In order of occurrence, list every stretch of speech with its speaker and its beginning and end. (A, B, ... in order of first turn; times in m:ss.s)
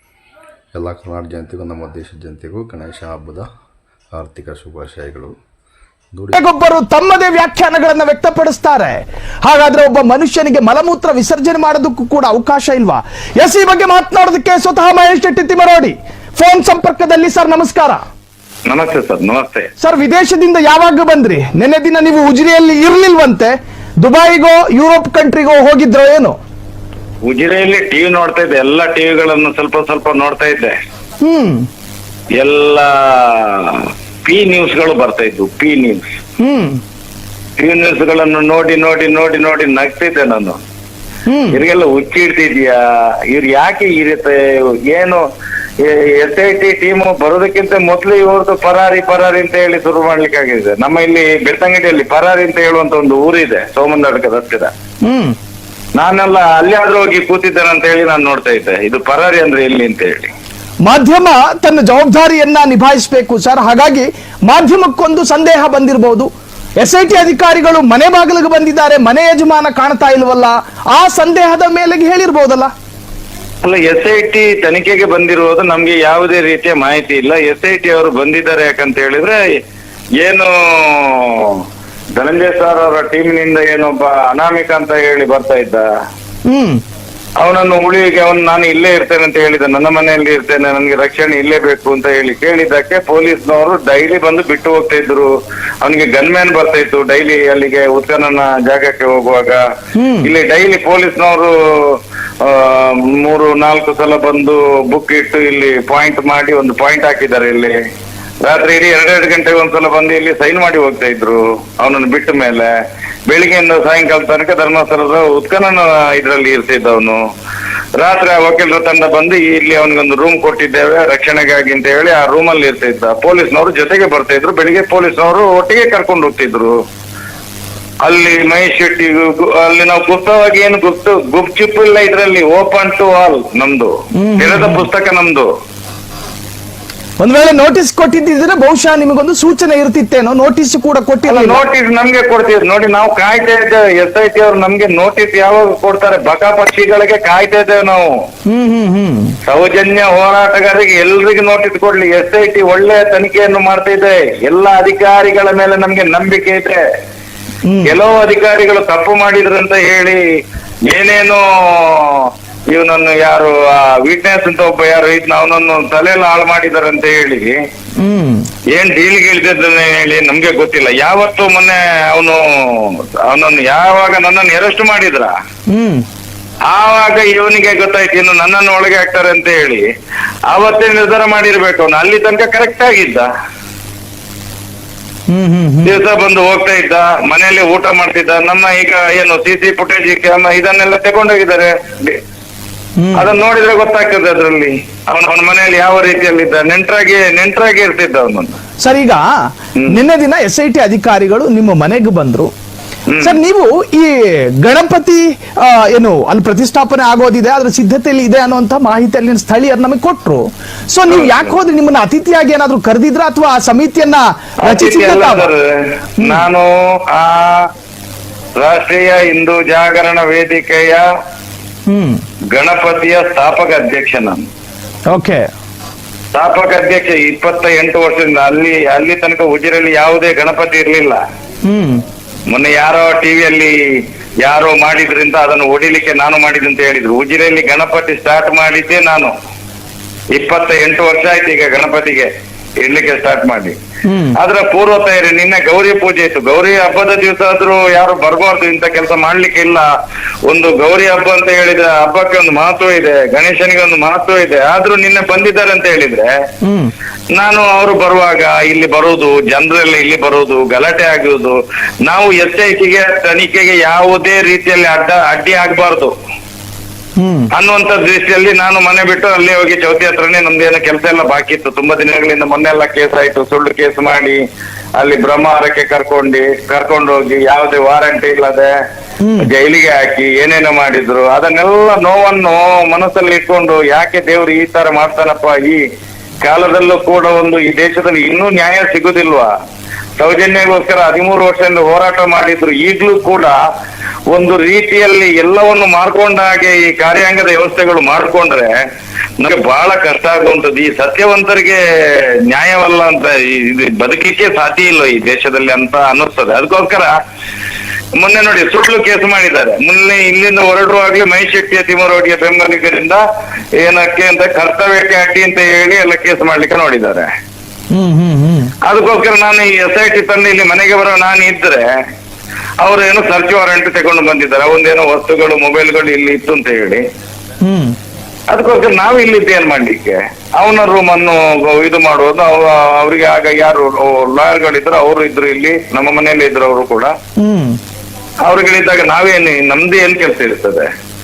0:00.7-0:03.5 A
0:04.1-0:05.3 A
0:06.1-0:06.4 A
0:06.3-0:18.0 B
0:18.7-0:19.7 C
0:19.8-0:26.4 B
0:27.2-0:30.8 C
0:31.2-0:31.7 B
0:32.4-0:36.2 C
0:36.4-0:36.8 B
0:37.6-0:40.6 C
0:41.3-0:41.6 B
0:41.5-0:42.8 C
0:43.3-0:45.2 C
0:45.8-0:54.7 C
0:55.0-0:55.4 B
0:56.0-1:00.3 C
1:00.8-1:12.7 B
1:13.6-1:19.4 C
1:20.2-1:21.6 C
1:22.2-1:25.9 C
1:26.5-1:26.8 B
1:27.4-1:35.3 C
1:35.8-1:39.6 C
1:40.0-1:40.3 B
1:40.2-1:47.8 C
1:48.4-1:52.7 C
1:53.3-1:57.2 C
1:58.0-2:06.8 C
2:08.0-2:15.5 C
2:14.2-2:14.8 B
2:17.2-2:21.6 B
2:21.3-2:28.1 C
2:28.5-2:29.3 B
2:29.4-2:36.8 C
2:37.7-2:38.0 B
2:37.9-2:40.2 C
2:40.9-2:47.6 C
2:48.0-2:48.5 B
2:48.7-2:55.3 C
2:55.7-2:56.0 B
2:56.7-2:59.9 C
3:00.5-3:03.3 C
3:05.3-3:06.0 B
3:05.8-3:12.2 C
3:13.0-3:13.2 B
3:13.1-3:18.6 C
3:18.8-3:19.2 B
3:19.9-3:22.5 B
3:23.1-3:23.4 C
3:23.2-3:35.5 B
3:31.1-3:31.5 C
3:34.6-3:35.7 C
3:36.2-3:37.7 C
3:38.6-3:41.0 C
3:41.9-3:42.2 B
3:42.5-3:44.4 C
3:45.1-3:45.4 B
3:46.3-3:51.2 C
3:51.7-3:52.0 B
3:52.5-3:59.3 C
4:00.3-4:02.3 C
4:02.8-4:03.8 C
4:04.1-4:04.4 B
4:04.4-4:09.9 C
4:10.5-4:16.3 C
4:16.6-4:16.9 B
4:17.3-4:26.1 C
4:27.2-4:27.5 B
4:27.5-4:34.4 C
4:35.0-4:38.7 C
4:39.2-4:39.5 B
4:39.4-4:45.8 C
4:46.4-4:49.5 C
4:50.2-4:53.6 C
4:54.3-4:58.7 C
4:59.4-5:01.8 C
5:02.5-5:07.2 C
5:08.2-5:13.2 C
5:13.8-5:17.3 C
5:17.9-5:18.7 B
5:18.8-5:21.9 C
5:22.8-5:27.0 C
5:27.6-5:27.9 B
5:28.5-5:37.1 C
5:37.4-5:37.8 B
5:38.4-5:40.9 C